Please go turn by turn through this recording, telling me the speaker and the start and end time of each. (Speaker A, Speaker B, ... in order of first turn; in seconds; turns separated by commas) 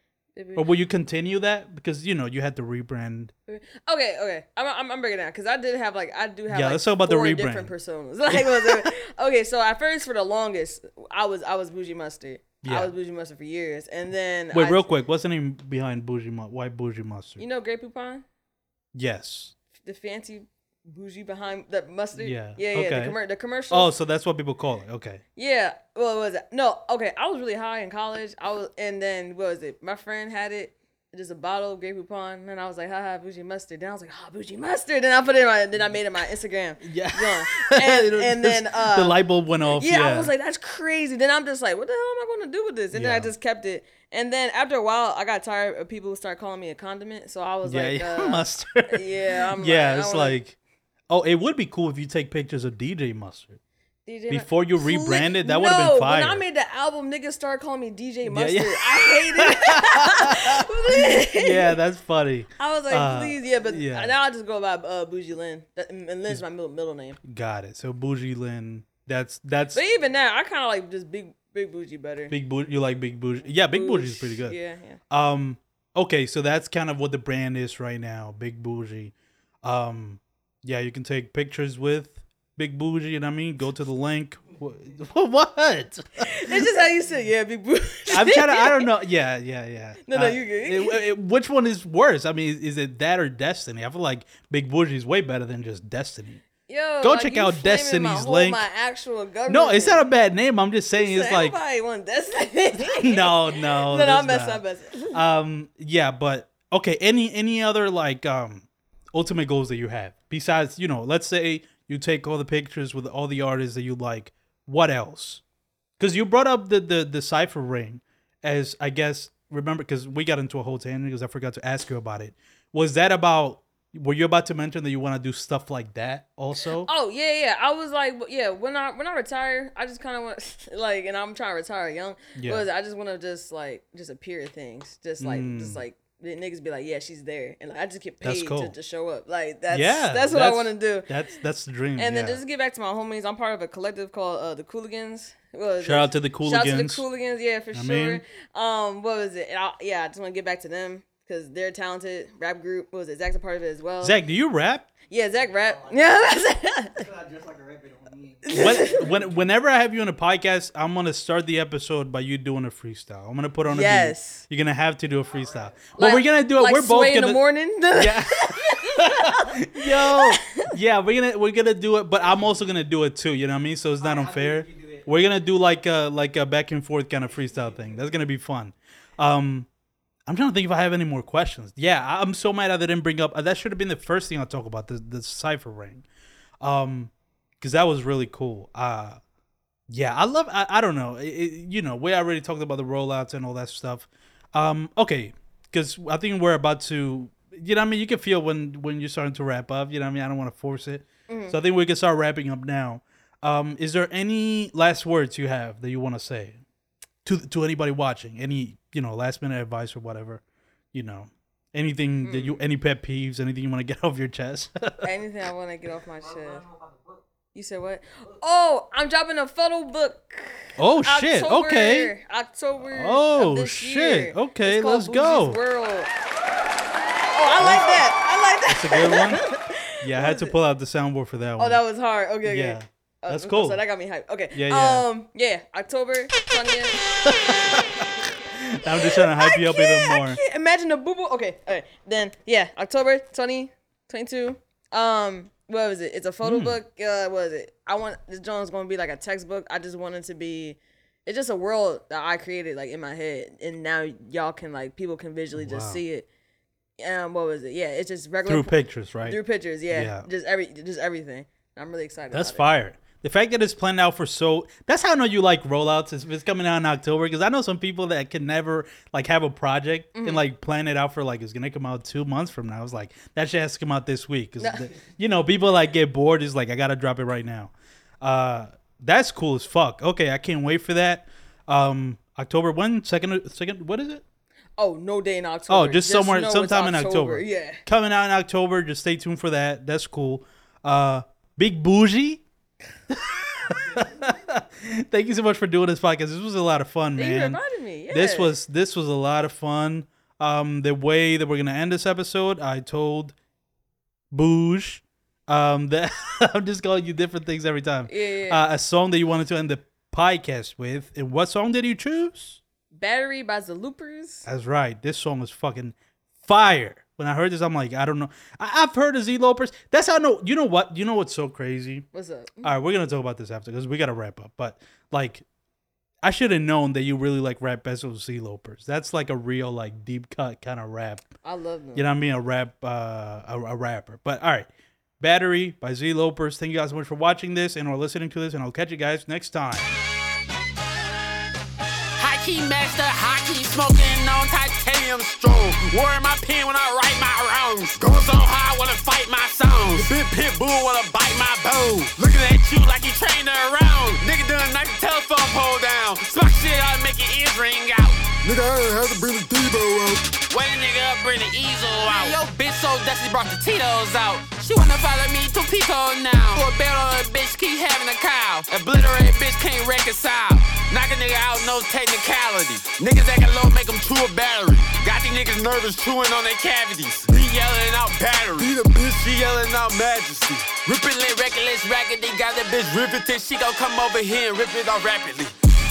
Speaker A: 0.3-0.7, Speaker B: 0.5-3.3, Speaker A: 3.5-14.9, Speaker B: 6.5-7.7, Speaker B: 8.3-8.8, Speaker B: 12.6-12.9, Speaker B: 14.5-17.4, Speaker A: 17.4-18.2, Speaker B: 18.9-19.5, Speaker A: 19.8-23.9, Speaker B: 22.2-23.1, Speaker B: 23.7-25.2, Speaker A: 25.4-39.2, Speaker B: 36.8-40.3, Speaker A: 39.7-50.4, Speaker B: 42.9-43.3, Speaker B: 47.6-49.1, Speaker B: 49.6-50.5, Speaker B: 51.1-53.6, Speaker A: 54.0-61.8, Speaker B: 54.3-56.4, Speaker B: 58.3-64.1, Speaker A: 62.6-67.2, Speaker B: 67.2-69.8, Speaker A: 69.7-72.3, Speaker B: 72.3-74.5, Speaker A: 73.7-75.0, Speaker B: 75.1-86.6, Speaker A: 86.2-88.8, Speaker B: 88.1-96.4, Speaker A: 90.1-91.0, Speaker A: 96.7-100.0, Speaker B: 97.0-98.6, Speaker B: 99.5-101.5, Speaker A: 101.0-105.2, Speaker B: 102.8-115.4, Speaker B: 116.0-126.9, Speaker A: 126.8-141.1, Speaker B: 132.3-132.6, Speaker B: 135.2-135.8, Speaker B: 138.2-138.7, Speaker B: 139.7-142.4, Speaker A: 142.0-154.2, Speaker B: 145.8-147.0, Speaker B: 147.7-148.2, Speaker B: 154.0-154.8, Speaker A: 155.1-157.1, Speaker C: 155.4-156.2, Speaker C: 156.9-159.4, Speaker A: 158.4-159.1, Speaker B: 158.5-167.4, Speaker A: 163.6-164.4, Speaker C: 165.3-166.0, Speaker A: 166.0-170.7, Speaker B: 167.9-179.7, Speaker C: 172.2-172.7, Speaker C: 174.0-175.1, Speaker C: 177.4-178.1, Speaker B: 180.3-186.0, Speaker B: 186.6-189.2, Speaker B: 189.9-206.6, Speaker A: 201.3-201.6, Speaker B: 207.2-210.4, Speaker B: 210.9-215.0, Speaker A: 212.2-212.6, Speaker A: 215.0-216.7, Speaker C: 215.9-217.2, Speaker A: 217.5-226.1, Speaker B: 220.8-222.1, Speaker B: 222.9-225.6, Speaker A: 227.3-230.5, Speaker B: 227.6-228.0, Speaker B: 228.7-229.4, Speaker B: 230.0-231.8, Speaker A: 231.6-237.0, Speaker B: 232.4-233.8, Speaker B: 234.5-235.0, Speaker B: 237.2-240.4, Speaker A: 238.9-256.2, Speaker B: 246.4-246.8, Speaker B: 255.6-256.0, Speaker A: 257.0-262.6, Speaker B: 258.4-259.4, Speaker B: 259.9-260.3, Speaker B: 262.3-284.2, Speaker A: 270.1-270.4, Speaker A: 274.6-274.9, Speaker A: 284.8-287.8, Speaker B: 285.7-292.4, Speaker B: 293.1-297.6, Speaker A: 297.2-298.5, Speaker B: 298.1-303.3, Speaker B: 304.3-312.6, Speaker A: 308.1-308.6, Speaker A: 312.9-314.4, Speaker B: 314.4-322.1, Speaker A: 322.1-322.7, Speaker B: 322.6-325.4, Speaker B: 326.2-331.2, Speaker A: 331.4-332.0, Speaker B: 331.9-334.7, Speaker B: 335.2-340.0, Speaker D: 342.2-358.2, Speaker E: 358.4-360.2, Speaker D: 360.5-385.5, Speaker E: 362.1-362.3, Speaker E: 378.6-379.2